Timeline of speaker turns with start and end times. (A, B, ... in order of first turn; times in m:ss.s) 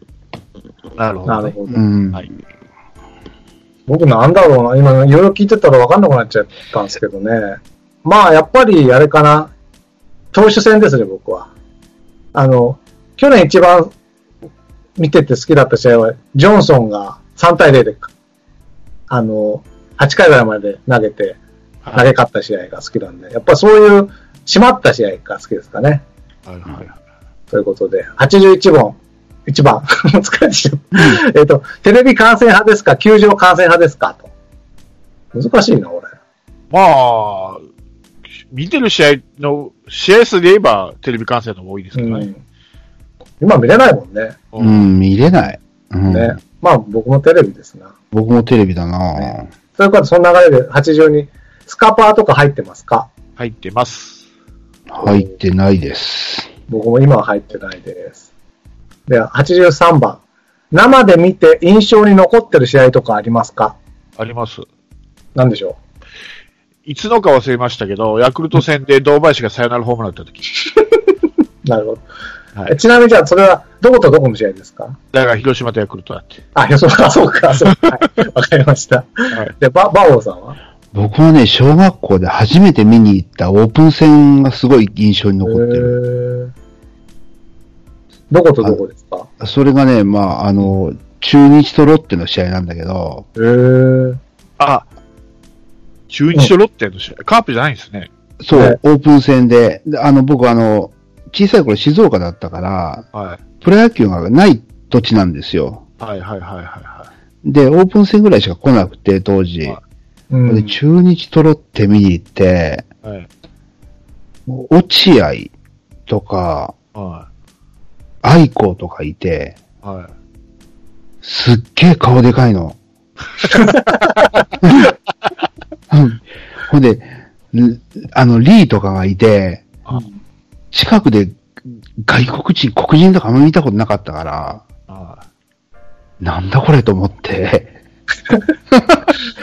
0:01.0-0:01.5 A
0:01.2-0:01.8 B
0:01.7-0:02.3 C
0:03.9-0:09.5 B
0:10.3-0:11.5 B
0:12.3-0:13.9 B
0:15.0-0:18.1 B
0:19.1-0:21.4 B
0:21.9-0:26.0 B
0:26.5-0:27.0 A
0:27.5-0:34.3 B
0:35.3-0:36.1 B
0:36.7-0:37.6 A
0:38.5-0:42.3 A
0:42.0-0:42.4 B
0:43.4-0:44.4 B
0:44.5-0:44.9 A
0:44.6-0:46.4 C
0:46.1-0:47.9 B
0:48.1-0:49.5 C
0:49.8-0:53.1 B
0:53.4-0:54.2 A
0:54.9-0:56.5 C
0:55.0-0:55.3 B
0:56.7-0:58.2 B
0:59.1-1:00.2 B
1:00.7-1:03.8 B
1:04.2-1:04.6 A
1:05.3-1:05.8 B
1:06.8-1:10.5 A
1:11.6-1:12.0 B
1:12.7-1:15.0 B
1:15.1-1:16.4 A
1:16.5-1:20.6 B
1:20.9-1:26.0 C
1:25.4-1:26.5 B
1:28.3-1:29.3 B
1:29.4-1:33.2 C
1:33.4-1:34.2 B
1:34.6-1:34.9 A
1:36.1-1:38.1 A
1:38.4-1:43.0 C
1:38.5-1:38.8 B
1:43.1-1:43.4 A
1:43.6-1:45.8 C
1:46.0-1:47.1 A
1:47.4-1:49.8 C
1:50.3-1:50.8 B
1:50.5-1:52.8 C
1:54.5-1:55.5 C
1:56.1-1:56.7 C
1:56.9-1:57.3 A
1:58.2-1:59.6 C
1:59.8-2:00.1 A
2:01.2-2:02.8 C
2:04.6-2:04.9 C
2:05.9-2:09.7 C
2:10.7-2:11.4 C
2:12.0-2:14.6 C
2:14.9-2:15.2 A
2:16.2-2:17.7 C
2:18.7-2:19.0 C